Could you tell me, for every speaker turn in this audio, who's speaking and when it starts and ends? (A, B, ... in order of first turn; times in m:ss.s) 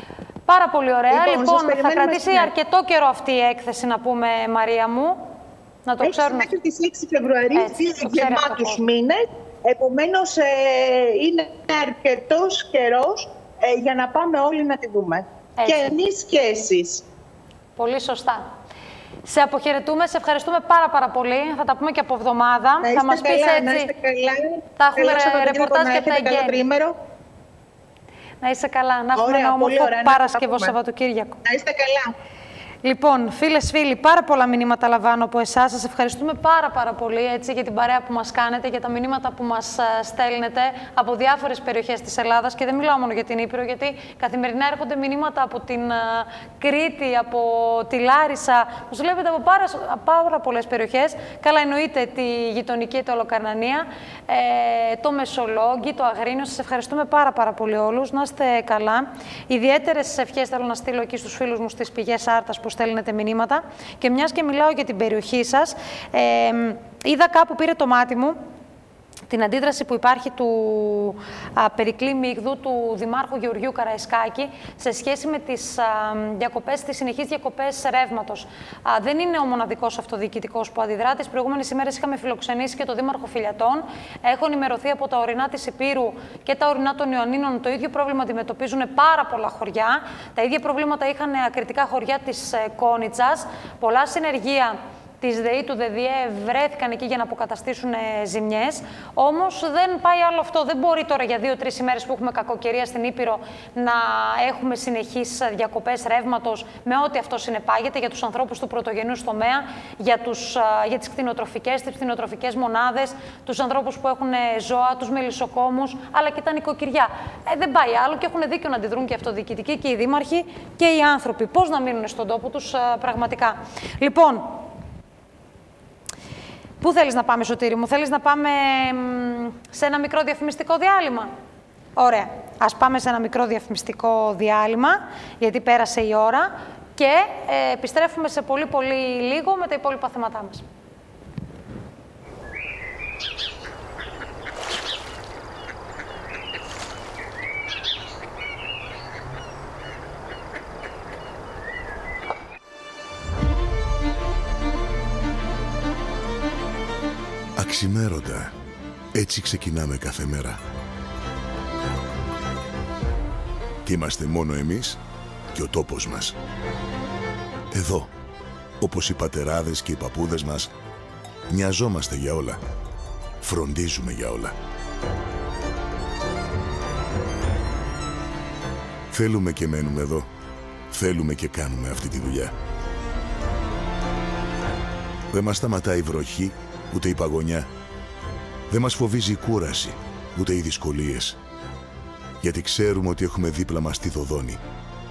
0:00.5-0:05.2 A
0:01.1-0:02.5 B
0:05.9-0:06.5 A
0:06.0-0:17.0 B
0:07.6-0:08.8 A
0:15.6-0:15.9 A
0:17.8-0:18.5 A
0:19.3-0:23.9 A
0:22.8-0:26.9 B
0:24.8-0:26.6 A
0:28.4-0:31.4 A
0:29.2-0:30.8 B
0:31.4-0:32.1 B
0:32.8-1:08.4 A
1:09.3-2:04.6 A
2:06.8-2:11.3 A
2:12.0-2:20.6 A
2:37.6-2:38.5 C
2:39.1-2:40.6 C
2:43.9-2:45.0 C
2:45.5-2:46.4 C
2:47.7-2:48.1 C
2:48.8-2:50.7 C
2:51.5-2:52.6 C
2:53.4-2:54.6 C
2:59.1-3:00.3 C
3:00.9-3:02.5 C
3:05.3-3:07.7 C
3:08.7-3:11.4 C
3:12.4-3:14.6 C